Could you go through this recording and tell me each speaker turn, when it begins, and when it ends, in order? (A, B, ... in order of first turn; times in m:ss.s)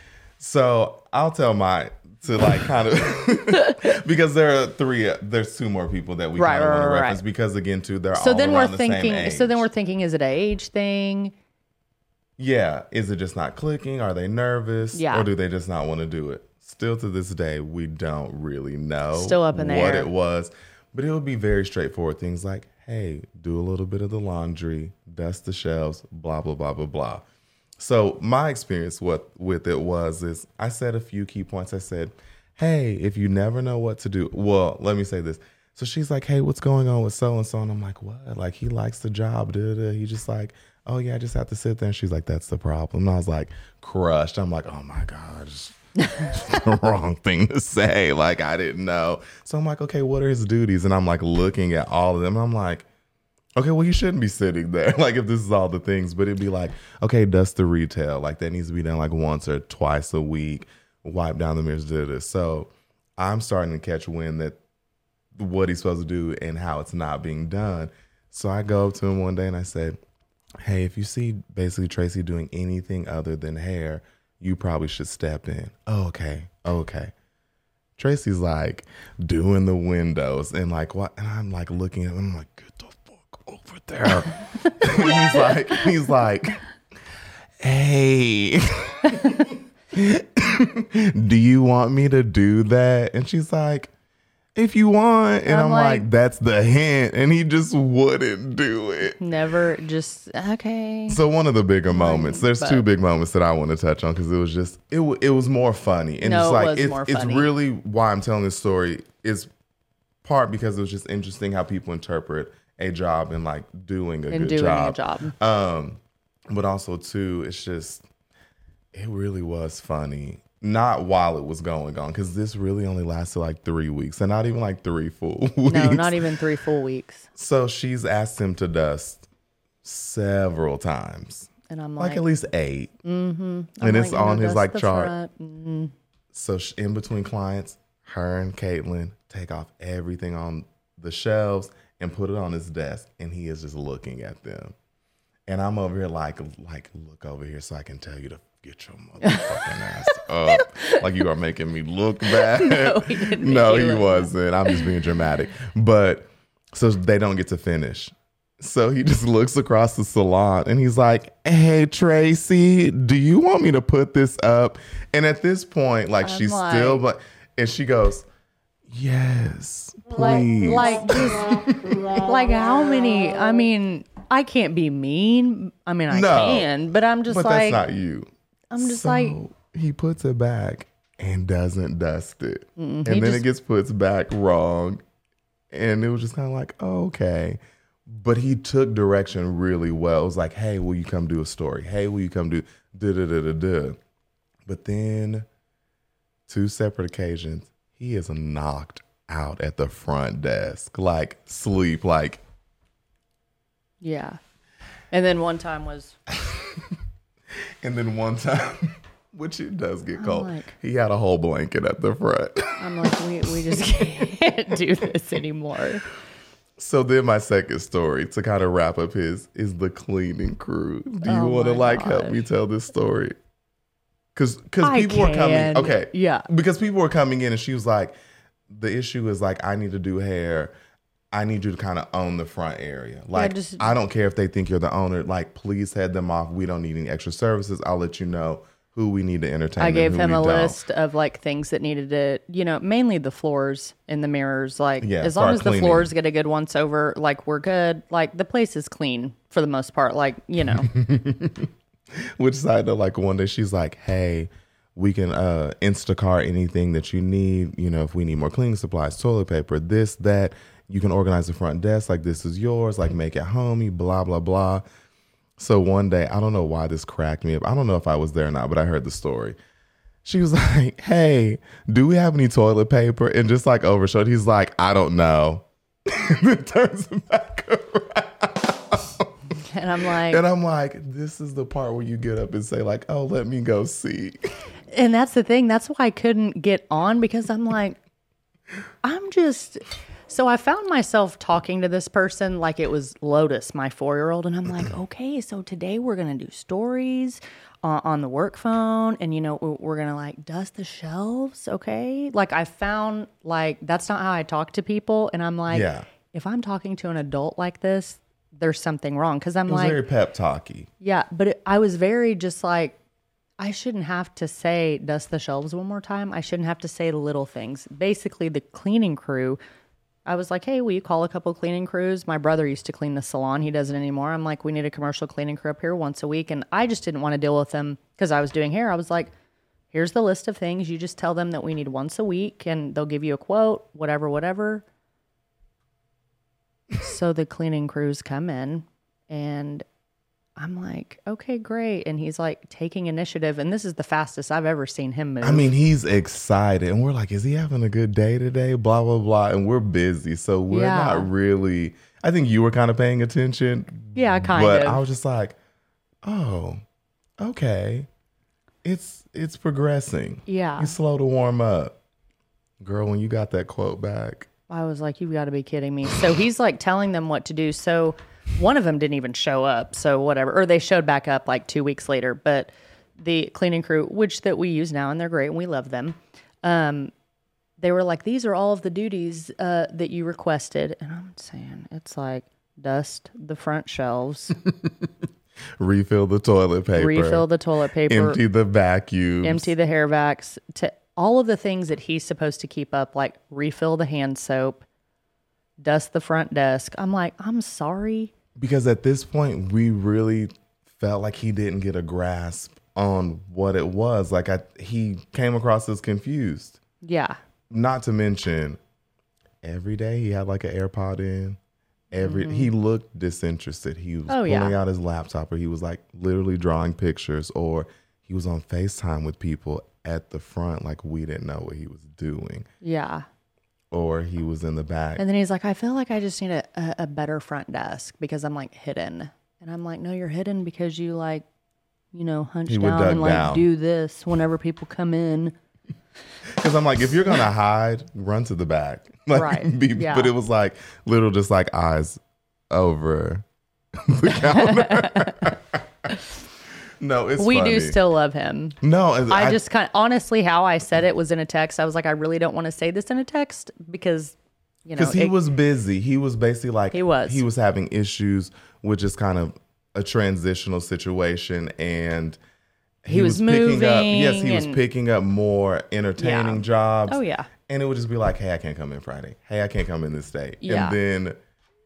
0:00.4-0:09.7 A
0:06.4-0:07.2 B
0:08.1-0:11.3 B
0:12.4-0:27.2 A
0:15.0-0:15.3 B
0:19.1-0:20.1 B
0:27.8-0:52.9 A
0:53.6-1:04.6 A
1:05.4-1:10.0 A
1:10.6-1:17.1 A
1:18.0-1:26.6 A
1:24.6-1:25.5 B
1:27.6-1:33.9 A
1:29.1-1:29.4 B
1:34.6-1:39.2 A
1:35.5-1:36.1 B
1:39.2-1:41.2 B
1:41.1-1:49.5 A
1:41.9-1:42.8 B
1:46.2-1:47.5 B
1:50.2-1:56.0 A
1:54.3-1:55.3 B
1:56.5-1:58.1 A
1:58.9-2:06.2 A
2:05.7-2:07.3 B
2:07.4-2:09.3 A
2:09.8-2:12.9 A
2:11.7-2:12.2 B
2:13.0-2:15.9 B
2:13.8-2:15.1 A
2:16.3-2:24.8 A
2:25.5-2:48.3 A
2:29.2-2:31.0 B
2:32.3-2:34.9 B
2:46.2-2:47.0 B
2:48.9-2:52.0 A
2:50.2-2:51.5 B
2:52.1-2:57.8 B
2:56.1-2:56.7 A
2:57.3-2:58.3 A
2:58.7-2:59.4 B
2:58.8-3:05.0 A
3:02.8-3:03.4 B
3:05.7-3:14.0 A
3:14.7-3:15.5 A
3:16.5-3:22.4 A
3:24.0-3:24.4 B
3:25.1-3:26.2 B
3:26.3-3:27.0 A
3:27.8-3:33.2 A
3:30.2-3:30.7 B
3:32.8-3:36.1 B
3:33.7-3:34.3 A
3:36.8-3:43.4 A
3:41.2-3:42.4 B
3:44.4-3:48.2 A
3:44.8-3:46.5 B
3:48.7-3:50.7 A
3:51.3-4:00.8 A
3:53.3-3:53.9 B
3:59.8-4:10.9 B
4:05.0-4:06.1 A
4:10.8-4:24.8 A
4:25.6-4:29.6 A
4:30.2-4:39.3 A
4:39.6-4:40.4 B
4:40.3-4:44.4 A
4:44.9-4:48.0 B
4:49.0-5:10.0 B
5:05.7-5:06.1 A
5:09.7-5:10.9 A
5:11.0-5:13.0 B
5:13.6-5:19.6 B
5:20.3-5:29.3 B
5:29.9-5:34.8 B
5:37.0-5:39.9 B
5:40.6-5:45.7 B
5:45.4-5:55.6 A
5:50.7-5:51.3 B
5:54.2-5:55.0 B
5:56.2-5:56.8 A
5:57.4-5:58.1 A
5:58.8-6:02.0 A
6:00.5-6:01.0 B
6:02.8-6:04.5 A
6:04.7-6:17.1 B
6:17.8-6:24.6 B
6:24.6-6:25.1 A
6:25.8-6:27.5 A
6:27.0-6:28.4 B
6:28.1-6:29.7 A
6:29.4-6:34.8 B
6:35.8-6:38.3 B
6:38.6-6:46.8 A
6:47.0-6:47.4 B
6:47.7-6:48.8 A
6:49.6-6:51.6 A
6:52.1-7:02.7 A
6:52.2-6:52.7 B
6:54.3-6:54.8 B
7:02.8-7:03.3 B
7:03.9-7:05.2 A
7:05.2-7:11.4 B
7:12.1-7:15.6 B
7:12.7-7:13.7 A
7:16.5-7:26.1 A
7:19.3-7:20.3 B
7:24.4-7:25.6 B
7:27.0-7:28.0 A
7:27.4-7:28.8 B
7:28.8-7:29.6 A
7:29.3-7:35.3 B
7:35.0-7:42.4 A
7:36.9-7:37.5 B
7:43.0-7:51.4 A
7:43.1-7:44.8 B
7:46.2-7:47.5 B
7:50.6-7:51.0 B